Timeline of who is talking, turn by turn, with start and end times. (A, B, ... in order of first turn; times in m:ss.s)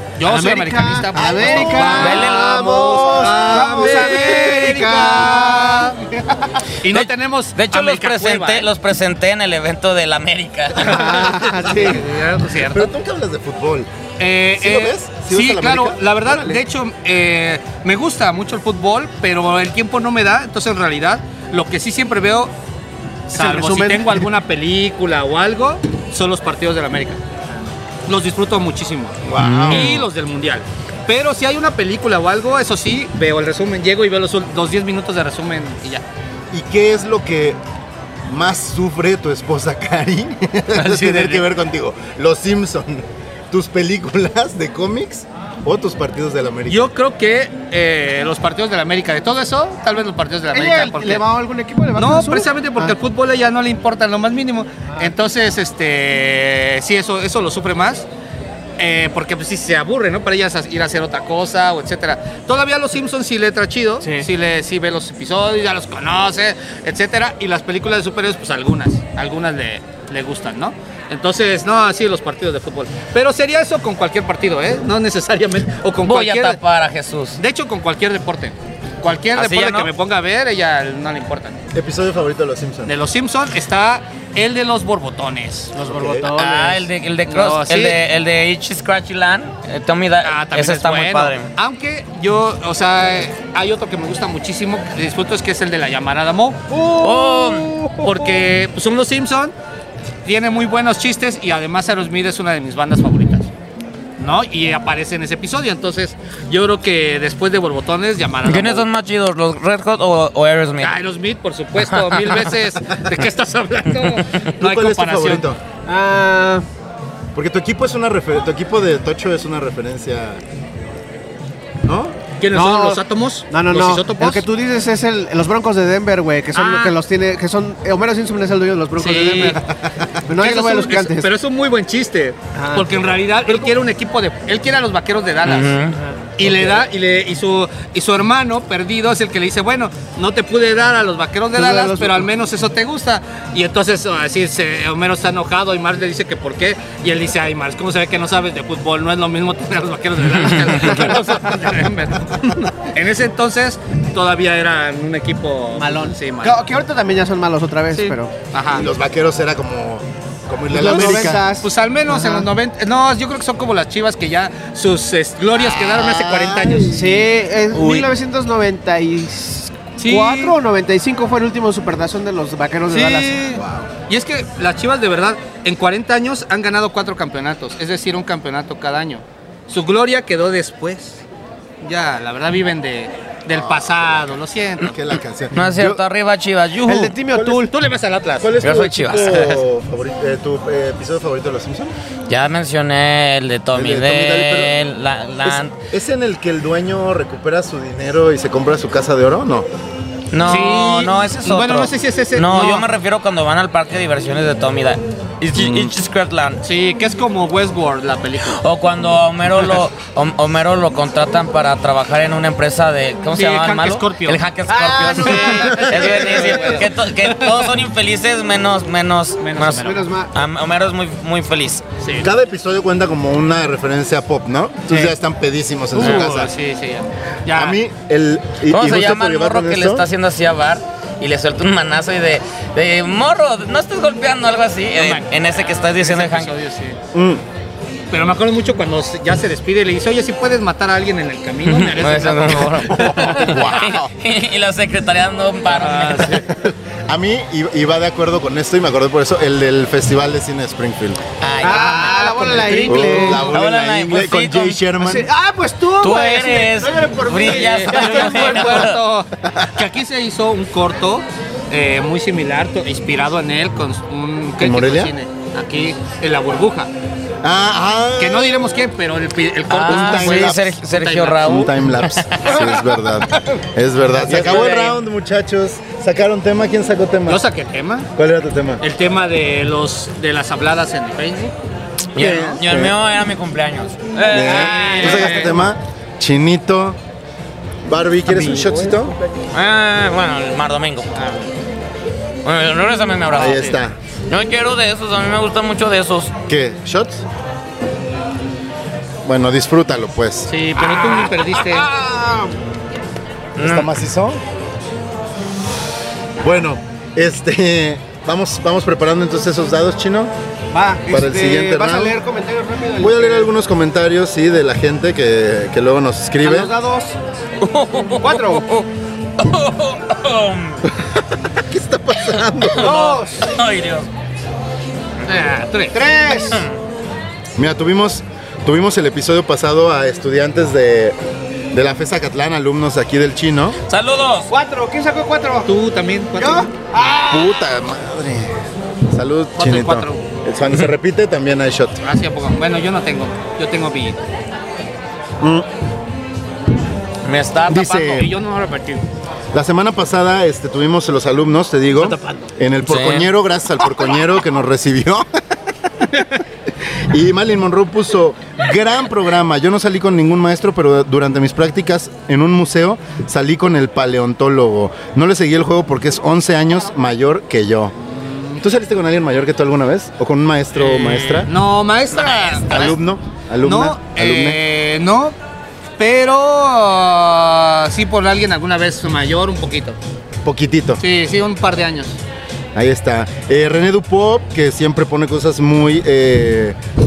0:00.2-0:06.0 A
0:00.2-0:06.1 B
0:01.2-0:04.4 C
0:01.7-0:02.8 D
0:06.8-0:08.7 A
0:06.9-0:11.4 D
0:10.8-0:12.0 B
0:11.2-0:12.9 A
0:12.5-0:13.9 C
0:14.2-0:22.5 A
0:14.6-0:16.6 C
0:23.3-0:27.2 A
0:23.3-0:24.3 B
0:28.1-0:36.0 A
0:29.2-0:30.0 C
0:29.4-0:30.1 D
0:36.5-0:37.6 C
0:38.3-0:46.9 C
0:40.8-0:41.5 A
0:46.7-0:51.2 A
0:50.5-0:52.9 B
0:52.0-0:58.1 A
0:58.8-1:16.6 A
1:04.0-1:04.3 B
1:16.0-1:17.4 D
1:17.4-1:21.6 A
1:19.4-1:19.9 D
1:21.7-1:22.9 C
1:22.9-1:25.7 A
1:25.7-1:26.9 B
1:25.8-1:26.3 C
1:26.3-1:31.5 D
1:27.3-1:28.0 A
1:30.2-1:36.6 A
1:36.7-1:38.4 B
1:37.0-1:37.7 D
1:38.0-1:39.5 A
1:40.2-1:43.5 A
1:44.2-1:48.9 A
1:48.5-1:51.0 D
1:50.8-1:55.5 A
1:51.8-1:52.5 D
1:54.6-1:55.6 C
1:55.9-1:56.6 B
1:57.3-2:00.4 C
2:01.8-2:02.2 C
2:02.4-2:04.4 A
2:02.5-2:09.6 B
2:06.6-2:07.0 A
2:09.0-2:09.6 A
2:10.3-2:11.3 B
2:10.4-2:15.8 A
2:12.6-2:12.9 B
2:15.4-2:16.0 D
2:16.0-2:16.8 B
2:16.4-2:36.6 A
2:21.6-2:22.3 B
2:35.8-2:38.3 B
2:37.9-2:38.9 A
2:38.7-2:41.4 C
2:40.7-2:42.5 B
2:40.8-2:47.0 A
2:45.6-2:47.2 C
2:46.9-2:53.8 B
2:47.7-2:48.1 A
2:50.0-2:50.6 A
2:52.9-3:01.2 A
3:01.8-3:05.0 A
3:03.5-3:03.9 C
3:04.8-3:06.0 C
3:05.5-3:07.2 D
3:06.9-3:07.7 B
3:07.3-3:07.7 C
3:07.7-3:08.6 A
3:08.4-3:12.0 C
3:08.6-3:09.6 D
3:12.3-3:15.7 D
3:13.7-3:14.8 C
3:15.4-3:19.7 C
3:20.3-3:26.6 D
3:20.4-3:22.9 A
3:25.5-3:26.0 C
3:26.6-3:28.6 A
3:28.5-3:41.8 D
3:33.3-3:34.4 A
3:34.7-3:36.8 B
3:35.2-3:37.6 A
3:39.4-3:40.0 A
3:39.8-3:40.3 B
3:42.0-3:42.3 A
3:42.2-3:46.5 C
3:44.9-3:45.2 B
3:46.0-3:47.8 A
3:46.0-3:46.3 B
3:47.5-3:50.1 C
3:48.7-3:56.5 D
3:55.0-3:57.0 A
3:57.1-3:57.4 C
3:58.1-4:03.6 A
4:01.7-4:06.4 D
4:02.9-4:04.1 C
4:05.7-4:06.5 A
4:06.5-4:11.2 C
4:11.4-4:14.8 D
4:11.6-4:13.5 B
4:11.7-4:13.4 A
4:12.9-4:15.3 C
4:15.0-4:18.9 B
4:16.0-4:19.0 D
4:17.4-4:26.9 A
4:19.4-4:19.7 C
4:24.6-4:25.1 C
4:27.4-4:28.6 C
4:28.2-4:31.7 A
4:29.7-4:32.7 D
4:29.8-4:30.7 C
4:31.4-4:37.4 C
4:34.2-4:35.0 D
4:37.3-4:38.1 A
4:38.2-4:38.8 C
4:38.8-4:41.5 A
4:42.2-4:45.6 D
4:42.2-4:43.0 C
4:42.2-4:42.6 A
4:44.3-4:47.0 C
4:44.4-4:45.6 A
4:47.8-4:49.2 C
4:48.5-4:48.9 B
4:49.5-4:51.2 D
4:52.4-4:53.8 D
4:53.3-4:54.0 C
4:54.3-4:56.3 D
4:56.5-4:57.2 C
4:59.2-5:00.5 C
5:00.5-5:01.9 A
5:01.6-5:02.5 B
5:03.6-5:03.9 D
5:03.6-5:04.4 C
5:06.4-5:10.3 C
5:10.7-5:13.5 B
5:11.1-5:12.2 C
5:13.0-5:16.7 C
5:16.4-5:17.2 B
5:17.6-5:18.9 D
5:18.2-5:18.7 B
5:19.4-5:20.9 D
5:21.5-5:23.0 C
5:22.7-5:24.1 D
5:22.8-5:23.5 B
5:25.3-5:26.0 A
5:25.9-5:26.7 B
5:27.6-5:31.2 C
5:31.7-5:33.8 C
5:33.9-5:34.5 D
5:34.5-5:35.7 B
5:35.7-5:36.7 A
5:36.4-5:37.6 B
5:37.1-5:38.6 C
5:39.1-5:42.0 C
5:39.6-5:40.2 A
5:42.0-5:44.2 A
5:45.4-5:45.7 C
5:47.2-5:48.2 D
5:47.7-5:48.3 C
5:47.8-5:49.1 A
5:49.5-5:55.3 C
5:52.2-5:52.5 B
5:52.8-5:53.3 D
5:56.8-6:08.0 C
6:08.2-6:08.6 A
6:08.6-6:11.5 C
6:10.8-6:12.9 A
6:12.2-6:12.8 D
6:12.7-6:14.6 C
6:13.6-6:15.4 A
6:16.0-6:20.0 A
6:20.4-6:21.0 C
6:21.0-6:22.2 A
6:22.8-6:26.8 C